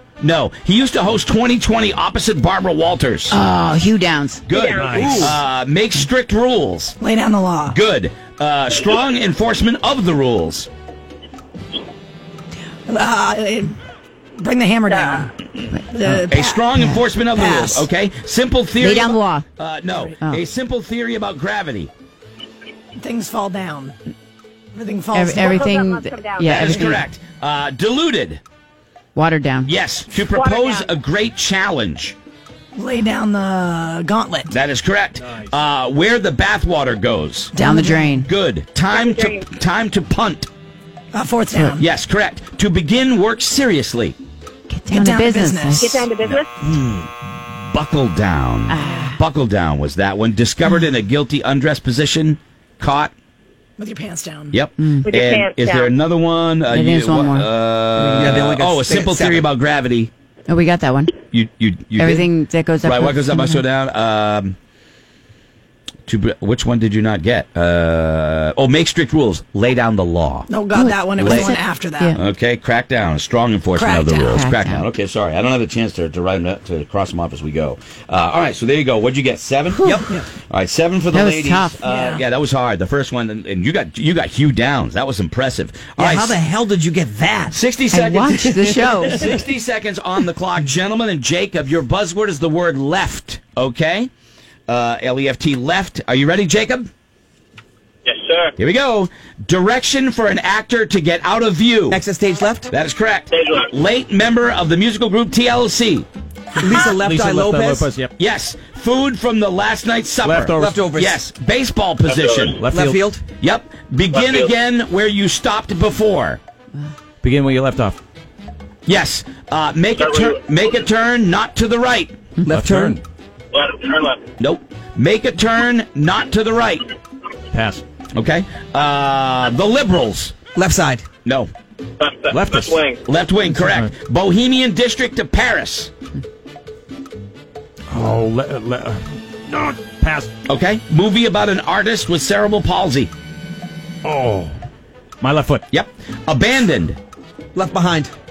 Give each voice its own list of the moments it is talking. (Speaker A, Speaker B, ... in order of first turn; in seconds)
Speaker A: 0.2-3.4, 4.5-7.0, 7.7-10.7, 16.3-21.9, 26.4-28.4, 29.6-32.1, 34.5-37.6, 38.1-40.5, 41.7-44.1, 46.2-53.1, 54.5-60.1, 61.2-62.3, 62.8-64.5, 66.1-70.5, 71.2-71.5, 72.1-80.0, 80.5-86.4, 87.5-94.1, 94.7-96.9, 98.6-102.0, 102.7-106.1, 108.2-112.6, 113.4-116.4, 118.8-122.1, 124.4-126.8, 128.1-130.3, 131.2-131.5, 133.1-135.9, 140.5-143.1, 145.7-147.0
Speaker B: 3.3-4.4, 18.8-19.5, 25.1-26.8, 29.1-29.7, 37.6-38.3, 41.5-41.8, 44.7-46.1, 48.7-49.2, 54.8-55.1, 56.7-57.5, 58.0-58.4, 60.5-61.2, 62.0-63.6, 70.7-72.2, 74.4-74.9, 79.7-80.0, 81.1-81.8, 87.9-89.3
Speaker C: 4.5-5.3, 14.9-15.3, 25.4-26.7, 30.3-30.9, 38.9-39.4, 45.8-46.5, 55.0-55.9
Speaker D: 4.7-5.4, 106.6-108.1, 110.2-110.8, 112.6-113.0, 117.2-118.0, 122.5-123.0, 127.5-127.8, 132.3-132.8, 133.5-133.9, 137.9-140.3, 144.0-144.5, 145.2-145.6
Speaker E: 7.0-7.8, 12.9-13.7, 14.4-15.3, 15.9-16.8, 17.3-17.9, 23.0-23.9, 24.7-25.8, 26.6-27.0, 32.8-34.5, 37.5-38.1, 41.1-41.9, 44.9-45.9, 53.8-54.6, 70.5-72.1, 73.8-74.3, 81.8-82.2
Speaker F: 58.1-59.5, 79.8-80.2, 86.0-87.5, 101.9-102.7, 106.6-107.9, 110.5-111.2, 112.6-113.2, 122.5-123.0, 130.6-131.0, 147.5-148.1
Speaker G: 98.0-98.5, 103.3-103.6, 112.1-112.6, 114.1-114.5, 120.0-120.4, 123.5-124.2, 132.0-133.0